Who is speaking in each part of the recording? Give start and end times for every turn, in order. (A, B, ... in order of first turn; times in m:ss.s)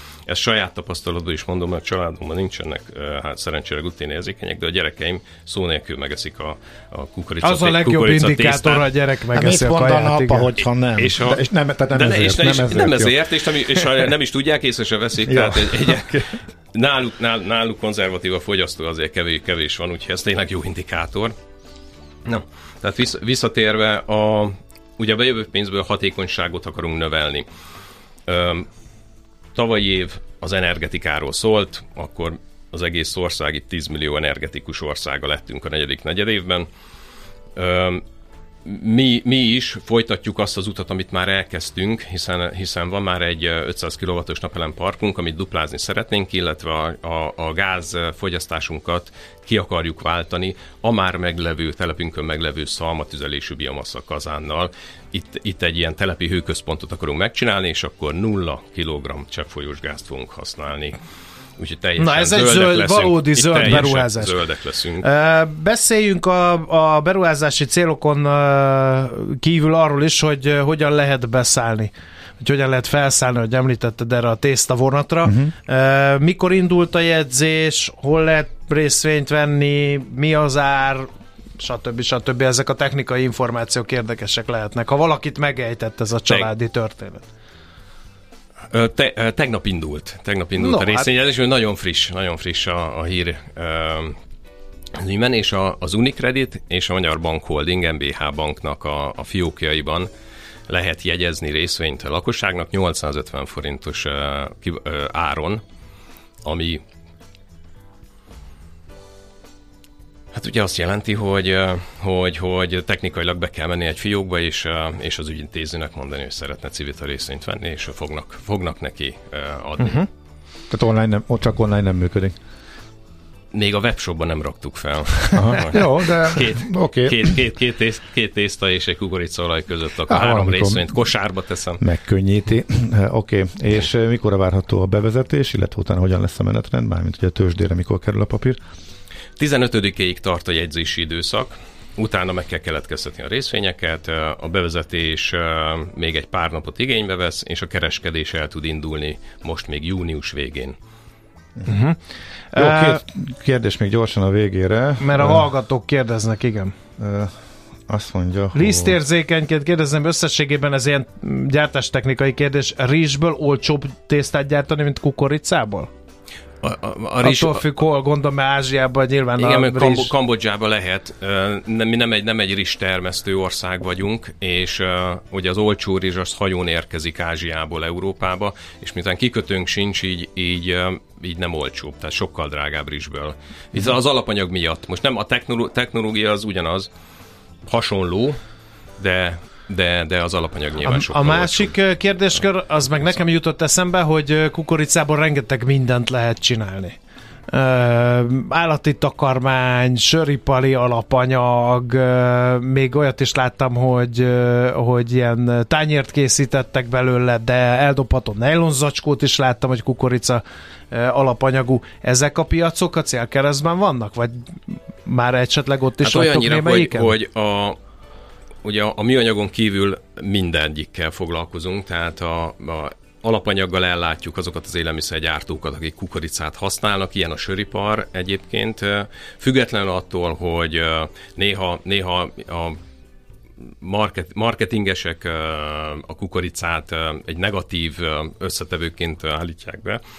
0:00.3-0:08.9 A
0:07.4-0:10.5 B
0:09.3-0:13.2 C
0:11.0-0:21.3 A
0:13.7-0:14.1 C
0:15.2-0:16.3 C
0:22.2-0:27.4 A
0:28.3-0:28.7 A
0:29.5-0:36.7 A
0:37.6-0:38.0 A
0:38.6-1:01.0 A
1:01.6-1:05.1 A
1:02.0-1:04.4 B
1:05.0-1:27.2 B
1:15.2-1:15.5 C
1:28.7-1:34.1 A
1:30.6-1:31.1 B
1:35.0-1:40.1 A
1:40.7-1:45.6 A
1:46.4-1:46.8 A
1:50.3-2:00.0 A
1:59.8-2:00.1 B
2:00.7-2:02.4 C
2:03.5-2:11.8 A
2:05.3-2:07.4 C
2:10.1-2:10.9 C
2:11.8-2:18.6 C
2:19.4-2:30.8 A
2:31.6-2:32.0 B
2:32.5-2:33.0 B
2:32.5-2:35.5 C
2:35.0-2:36.7 B
2:37.0-2:37.3 C
2:37.9-2:39.0 C
2:38.5-2:45.9 B
2:46.6-2:47.6 A
2:47.2-2:50.1 B
2:49.4-3:06.9 A
3:07.6-3:08.4 A
3:09.0-3:11.7 A
3:10.8-3:17.0 B
3:17.5-3:37.1 B
3:36.0-3:37.8 A
3:38.6-3:52.8 A
3:53.8-4:00.0 A